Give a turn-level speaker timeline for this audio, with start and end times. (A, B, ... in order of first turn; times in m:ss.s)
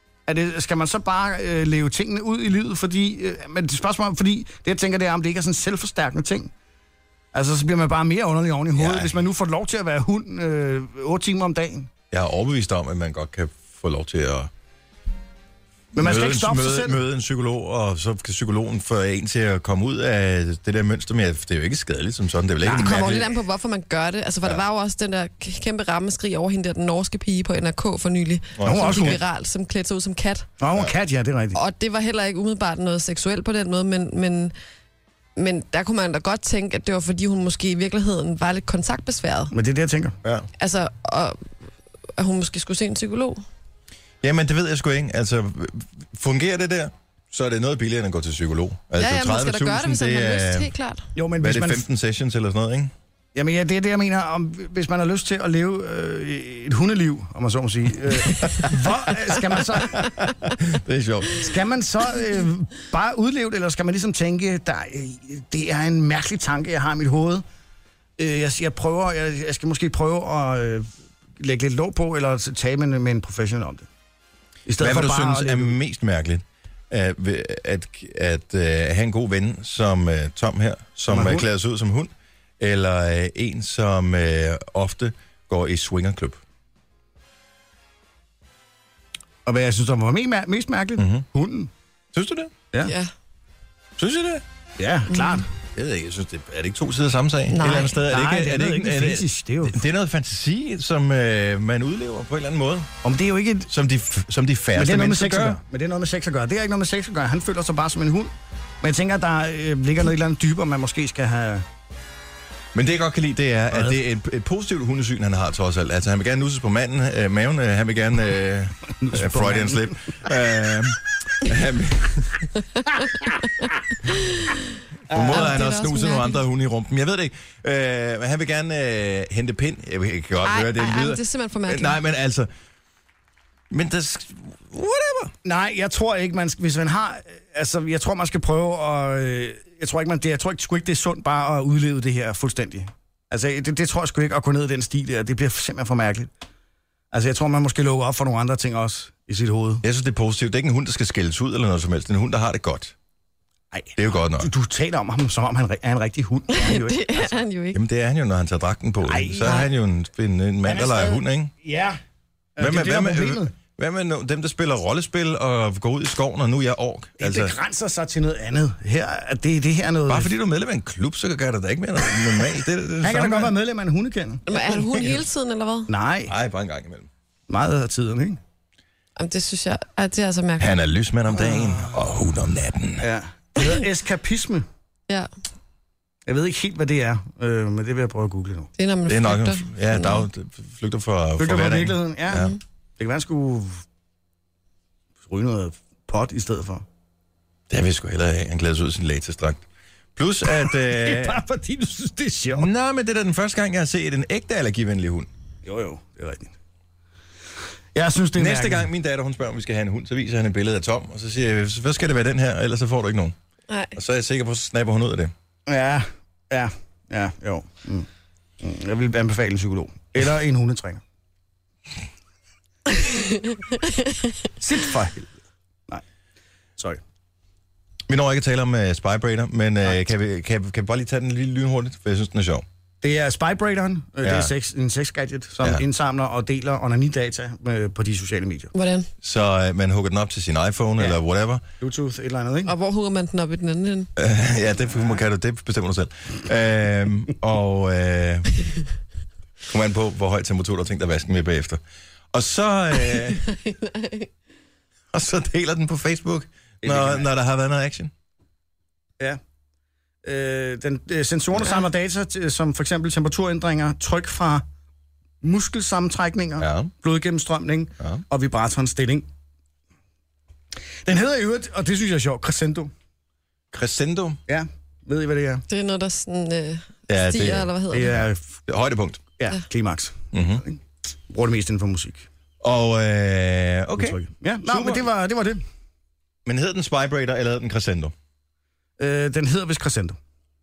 0:00.3-0:06.5 A
0:07.3-0:11.9 A
0:08.7-0:09.2 B
0:12.1-0:14.5 B
0:15.9-0:17.0 A
0:16.0-0:23.3 B
0:22.6-0:23.0 A
0:22.7-0:30.5 C
0:28.6-0:29.2 B
0:28.6-0:29.2 A
0:30.6-0:31.6 A
0:31.5-0:34.5 C
0:35.4-0:39.5 C
0:39.5-0:40.2 A
0:40.6-0:41.4 C
0:42.2-0:43.4 C
0:44.2-0:50.7 B
0:49.0-0:51.1 C
0:51.2-0:51.8 A
0:51.4-0:52.9 B
0:53.3-1:00.1 A
0:58.4-0:58.9 B
0:59.9-1:01.4 B
1:01.4-1:07.4 A
1:08.2-1:10.9 A
1:11.4-1:13.9 A
1:14.6-1:15.8 A
1:14.8-1:26.4 B
1:21.1-1:21.5 A
1:29.4-1:31.7 A
1:31.0-1:31.2 B
1:32.1-1:32.5 B
1:32.8-1:33.1 C
1:34.0-1:34.4 B
1:34.8-1:35.4 A
1:35.1-1:35.4 C
1:35.7-1:42.9 B
1:37.5-1:38.0 C
1:38.1-1:39.8 A
1:43.0-1:43.7 A
1:43.7-1:45.6 B
1:44.7-1:48.3 A
1:48.8-1:51.6 A
1:52.7-2:02.5 B
1:59.0-2:00.2 A
2:05.1-2:05.5 A
2:05.1-2:12.5 B
2:05.3-2:06.4 C
2:10.4-2:12.0 C
2:13.7-2:15.3 B
2:15.4-2:26.3 A
2:27.1-2:29.8 A
2:29.8-2:32.9 B
2:33.7-2:37.4 A
2:34.0-2:34.5 B
2:36.5-2:37.8 C
2:37.7-2:41.5 B
2:39.0-2:39.7 A
2:40.6-2:42.0 A
2:42.6-2:43.5 A
2:42.6-2:47.5 B
2:47.2-2:50.3 A
2:50.1-2:53.5 B
2:53.0-2:54.4 A
2:54.5-2:55.9 C
2:54.5-2:55.2 B
2:55.9-2:56.3 A
2:56.3-2:57.1 B
2:57.5-2:58.4 A
2:59.2-3:00.8 C
3:00.6-3:03.0 B
3:01.5-3:01.8 A
3:03.0-3:04.6 A
3:06.3-3:08.7 A
3:08.8-3:10.2 C
3:09.1-3:12.5 B
3:11.4-3:13.8 A
3:15.3-3:16.8 A
3:17.7-3:19.6 B
3:20.2-3:21.4 B
3:20.5-3:22.7 A
3:22.5-3:25.3 B
3:25.6-3:26.5 A
3:27.9-3:28.9 A
3:28.3-3:33.4 B
3:33.7-3:33.9 C
3:33.9-3:35.3 B
3:35.7-3:38.1 A
3:38.6-3:41.0 A
3:42.9-3:44.4 C
3:44.6-3:45.3 A
3:48.1-3:52.6 B
3:53.0-3:58.7 A
3:54.2-3:54.5 B
3:58.7-3:59.1 C
3:59.2-4:01.6 B
4:01.8-4:02.7 A
4:02.6-4:04.1 C
4:04.2-4:08.5 B
4:09.7-4:11.8 B
4:12.3-4:13.4 B
4:13.4-4:14.3 C
4:15.1-4:18.1 B
4:16.8-4:17.3 A
4:20.2-4:24.6 A
4:25.4-4:29.3 A
4:26.6-4:26.9 B
4:31.0-4:32.9 A
4:33.7-4:34.4 B
4:34.5-4:35.6 A
4:35.7-4:38.2 C
4:37.1-4:39.2 B
4:37.9-4:38.5 A
4:39.4-4:42.2 A
4:40.3-4:40.6 B
4:42.6-4:45.0 B
4:44.0-4:45.6 A
4:46.4-4:48.1 B
4:49.0-4:50.2 A